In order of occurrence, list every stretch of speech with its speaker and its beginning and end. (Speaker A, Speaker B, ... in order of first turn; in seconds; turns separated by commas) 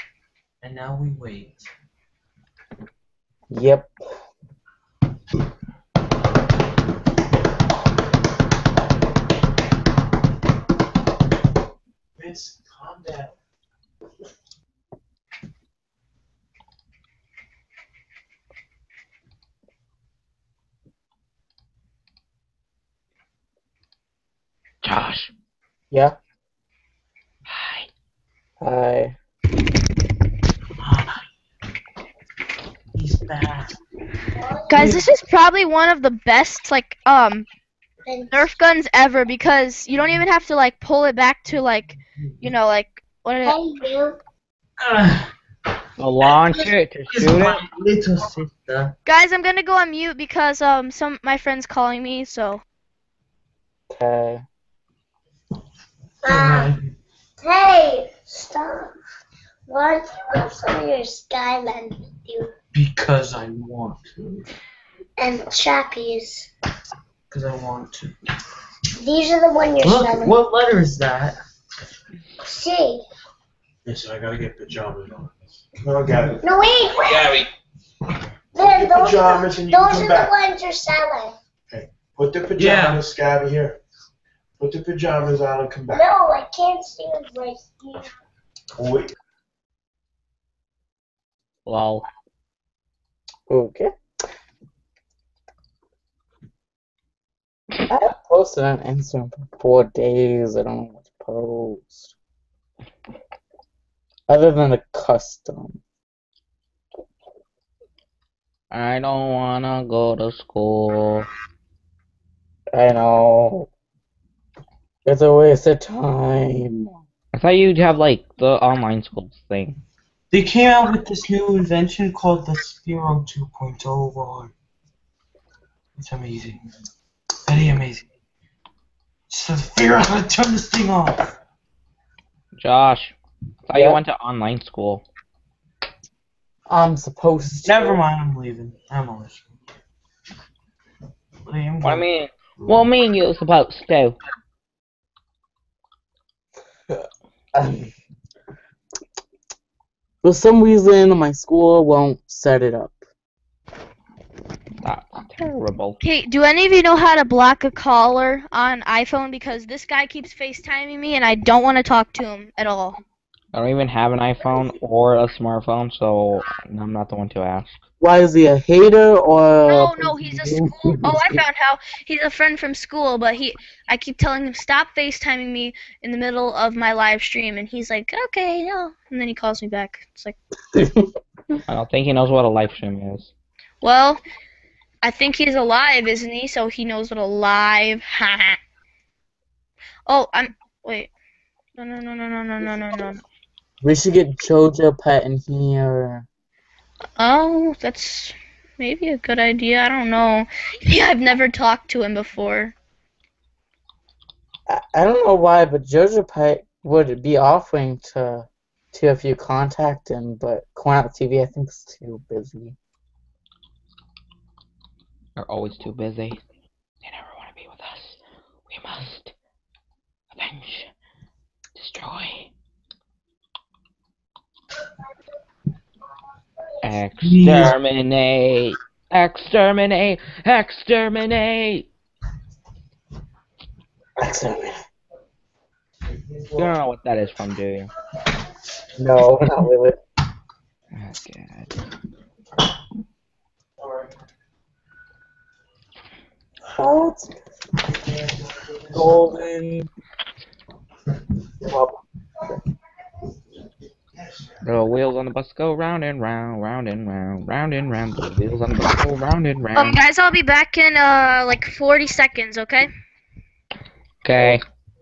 Speaker A: 0.6-1.7, Speaker B: 3.5-3.9, Speaker C: 12.2-13.3, Speaker D: 24.8-25.3, Speaker B: 25.9-26.1, Speaker D: 27.5-27.9, Speaker B: 28.6-29.1, Speaker A: 30.8-31.2, Speaker A: 32.9-33.8, Speaker E: 34.4-35.0, Speaker F: 34.7-37.5, Speaker E: 38.1-38.5, Speaker F: 38.3-43.6, Speaker E: 43.4-44.2, Speaker A: 44.8-45.3, Speaker D: 46.0-47.6, Speaker A: 47.1-48.9, Speaker F: 49.1-52.6, Speaker B: 53.9-54.4, Speaker E: 56.2-56.7, Speaker A: 56.3-56.9, Speaker E: 57.4-58.9, Speaker E: 59.7-62.5, Speaker A: 62.7-64.4, Speaker E: 65.2-66.5, Speaker A: 67.3-68.1, Speaker E: 69.0-70.4, Speaker A: 69.8-71.4, Speaker E: 72.4-73.0, Speaker C: 73.8-76.4, Speaker E: 76.4-77.5, Speaker E: 78.5-81.4, Speaker C: 78.6-80.3, Speaker C: 81.7-83.8, Speaker A: 82.5-83.0, Speaker C: 84.6-86.0, Speaker E: 85.9-88.1, Speaker C: 88.8-89.1, Speaker D: 91.7-92.0, Speaker B: 93.5-93.9, Speaker B: 97.9-102.1, Speaker B: 104.3-105.8, Speaker D: 108.7-111.3, Speaker B: 112.7-113.7, Speaker B: 115.0-116.9, Speaker D: 117.3-119.8, Speaker A: 120.3-124.5, Speaker A: 126.0-126.6, Speaker A: 127.5-128.1, Speaker A: 129.3-131.3, Speaker D: 132.6-133.1, Speaker D: 133.7-135.0, Speaker B: 133.7-134.0, Speaker B: 136.7-138.0, Speaker A: 137.6-139.4, Speaker A: 141.4-142.1, Speaker D: 141.8-144.2, Speaker B: 147.5-147.9, Speaker B: 150.2-153.0, Speaker D: 154.8-156.0, Speaker F: 156.0-163.0, Speaker D: 163.5-167.8, Speaker B: 168.0-171.4, Speaker F: 169.7-180.4, Speaker B: 180.7-181.1, Speaker D: 181.7-183.3, Speaker F: 183.8-184.2, Speaker F: 185.0-188.6, Speaker F: 190.1-191.1, Speaker F: 191.8-193.2, Speaker B: 193.8-196.3, Speaker F: 197.2-202.7, Speaker B: 204.7-212.8, Speaker D: 215.4-216.4, Speaker D: 217.0-219.3, Speaker D: 220.4-220.9, Speaker D: 221.8-222.5, Speaker D: 226.8-231.9, Speaker A: 227.2-227.7, Speaker B: 234.2-234.8, Speaker D: 236.6-237.9, Speaker B: 238.9-240.0, Speaker D: 240.9-241.7, Speaker C: 243.8-244.1, Speaker B: 246.7-247.4, Speaker B: 248.9-249.9, Speaker D: 254.6-260.0, Speaker F: 259.7-262.9, Speaker D: 264.2-264.6